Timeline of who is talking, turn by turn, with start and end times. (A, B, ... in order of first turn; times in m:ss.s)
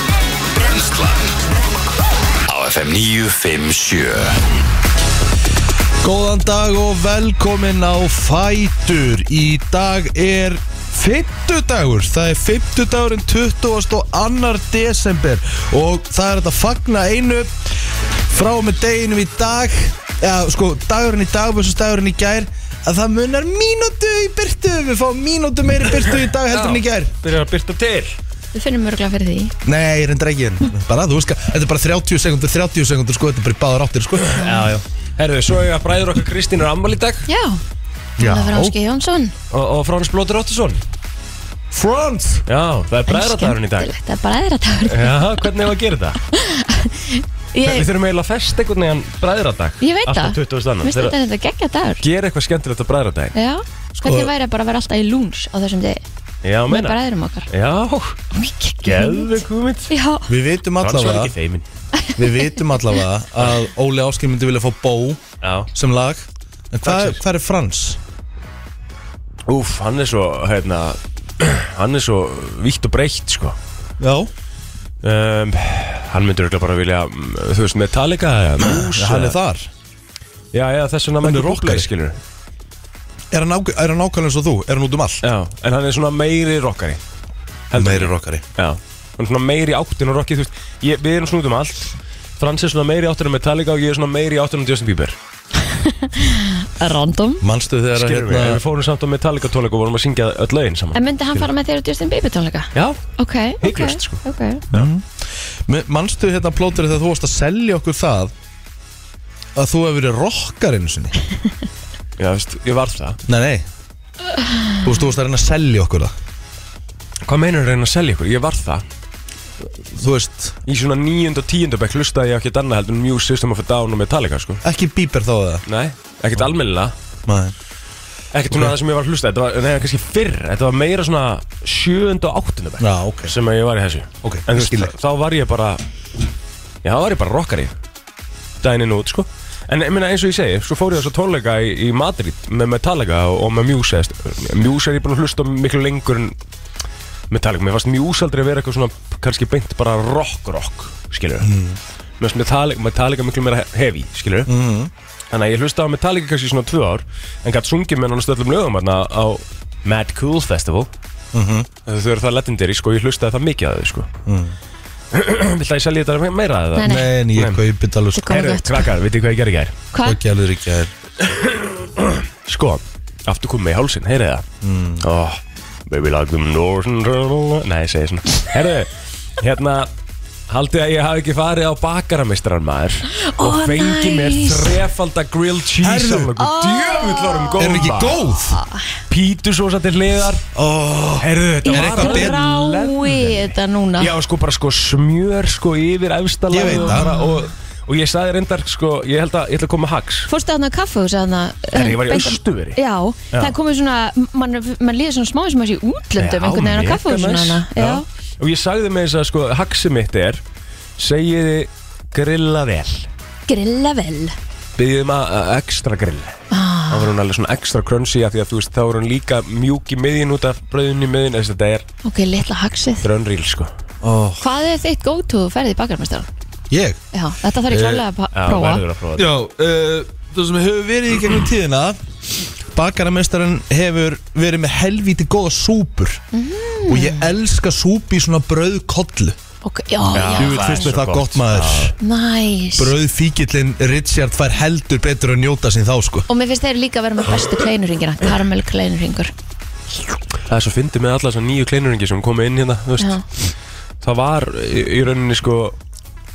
0:00.6-0:01.4 A
0:02.5-0:04.4 A
0:06.0-0:27.2 B
0:26.5-0:28.2 C
0:28.5-0:29.5 D
0:29.6-0:34.5 B
0:34.4-0:37.3 C
0:37.3-0:37.6 D
0:38.2-0:38.8 B
0:38.2-0:39.3 D
0:39.5-0:40.8 C
0:41.7-0:42.5 B
0:42.5-0:43.9 C
0:43.1-0:45.5 D
0:44.9-0:46.2 C
0:46.3-0:47.9 D
0:47.6-0:51.2 C
0:49.8-0:52.0 D
0:52.0-0:53.4 C
0:53.4-0:56.0 D
0:54.0-0:54.3 B
0:56.4-0:58.2 C
0:56.7-0:57.5 D
0:58.3-0:59.3 D
0:58.8-0:59.9 C
0:59.9-1:00.3 D
1:00.3-1:01.3 B
1:00.8-1:01.7 C
1:02.0-1:02.7 D
1:02.2-1:08.0 B
1:05.4-1:05.7 C
1:06.8-1:07.2 C
1:09.5-1:13.6 C
1:14.0-1:14.3 B
1:15.0-1:19.4 C
1:18.6-1:19.7 B
1:20.5-1:22.2 C
1:21.2-1:21.9 B
1:23.3-1:25.2 B
1:25.2-1:27.0 C
1:27.7-1:35.2 C
1:27.7-1:28.4 B
1:35.6-1:37.4 D
1:37.4-1:38.6 B
1:38.0-1:41.4 C
1:40.9-1:44.6 D
1:43.6-1:44.9 C
1:44.7-1:48.3 B
1:49.6-1:51.2 B
1:52.2-1:53.2 C
1:53.3-1:53.7 B
1:54.8-1:56.1 B
1:57.3-1:58.8 C
1:59.9-2:00.6 B
2:00.7-2:04.6 C
2:04.6-2:05.6 B
2:05.7-2:06.9 C
2:07.3-2:07.6 B
2:08.3-2:15.8 C
2:08.5-2:08.8 B
2:12.8-2:13.3 B
2:14.2-2:14.9 B
2:16.8-2:17.7 C
2:18.6-2:26.4 C
2:27.3-2:31.5 C
2:31.4-2:31.8 B
2:32.2-2:34.5 C
2:34.5-2:34.9 B
2:35.3-2:40.9 C
2:41.3-2:41.7 B
2:41.9-2:44.1 C
2:44.3-2:44.6 B
2:45.1-2:47.6 C
2:46.8-2:47.1 D
2:46.8-2:48.4 B
2:48.2-2:48.9 D
2:48.3-2:49.8 C
2:49.9-2:50.2 D
2:50.0-2:50.9 B
2:51.2-2:54.5 C
2:54.6-2:55.1 B
2:55.0-2:59.9 C
3:00.5-3:08.2 C
3:03.1-3:04.8 D
3:05.8-3:06.3 B
3:06.4-3:07.6 D
3:07.6-3:08.6 B
3:08.5-3:08.9 D
3:09.1-3:10.5 C
3:10.5-3:12.4 B
3:11.2-3:20.3 C
3:11.6-3:14.1 D
3:16.5-3:17.2 B
3:16.6-3:17.4 D
3:20.3-3:28.0 D
3:21.7-3:22.8 C
3:26.2-3:30.4 C
3:31.0-3:33.1 C
3:33.5-3:34.4 D
3:34.8-3:36.4 C
3:36.5-3:37.1 D
3:36.9-3:41.8 C
3:42.0-3:43.0 D
3:43.0-3:43.7 C
3:44.0-3:44.4 B
3:44.4-3:46.3 D
3:46.7-3:47.0 B
3:47.1-3:48.8 D
3:47.7-3:48.0 B
3:48.3-3:49.3 C
3:49.2-3:52.0 B
3:52.7-3:56.2 B
3:56.3-3:57.3 D
3:56.9-3:59.4 B
3:59.6-4:00.9 D
4:00.1-4:01.9 C
4:00.4-4:02.0 B
4:02.0-4:02.9 D
4:02.8-4:06.3 B
4:06.3-4:09.3 D
4:10.5-4:13.2 C
4:14.0-4:15.8 C